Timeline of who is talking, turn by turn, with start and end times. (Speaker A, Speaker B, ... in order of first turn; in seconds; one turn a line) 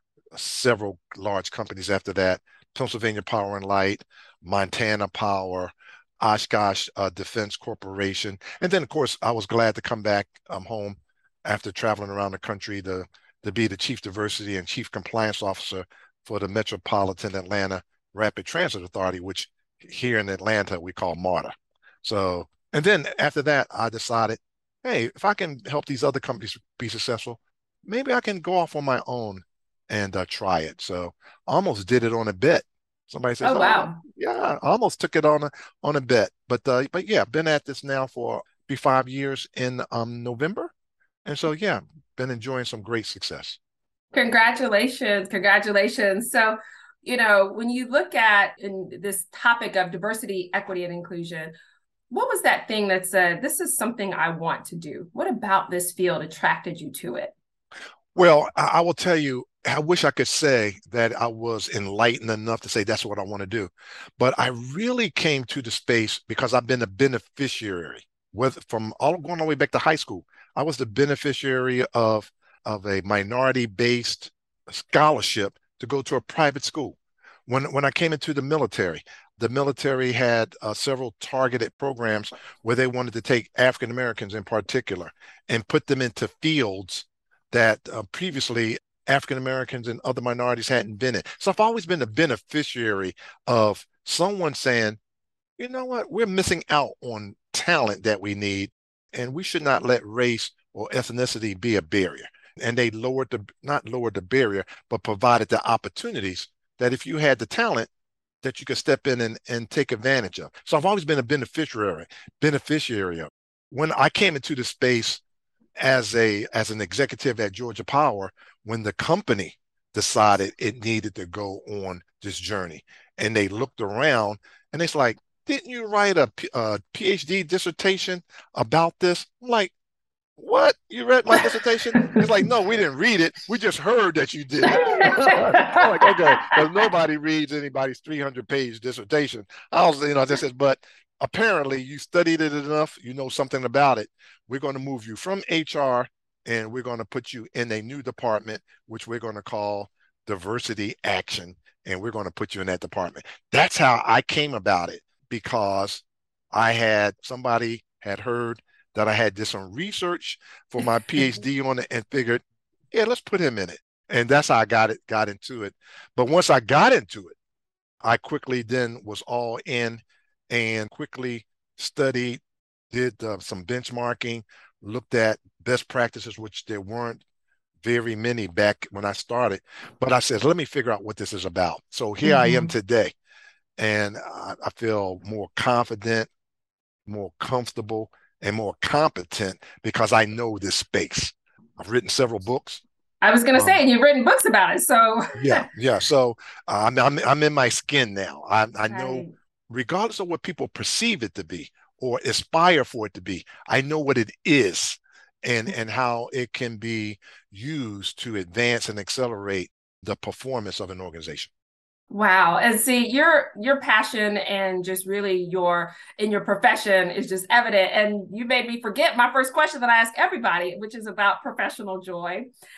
Speaker A: 0.3-40.7
Speaker B: 33.4-34.0
Speaker A: 41.2-43.6
Speaker B: 44.1-51.5
Speaker B: 52.1-57.3
Speaker A: 58.1-95.0
Speaker A: 95.6-107.9
Speaker A: 108.4-115.2
Speaker A: 115.8-129.7
Speaker A: 130.4-167.4
Speaker B: 131.3-132.2
Speaker B: 134.6-136.6
Speaker B: 161.1-161.4
Speaker A: 168.0-177.2
Speaker A: 177.8-183.2
Speaker B: 182.2-182.7
Speaker A: 183.8-186.3
Speaker A: 187.1-192.8
Speaker B: 193.2-195.7
Speaker A: 193.5-193.8
Speaker A: 195.3-211.5
Speaker B: 198.9-199.3
Speaker B: 212.1-222.5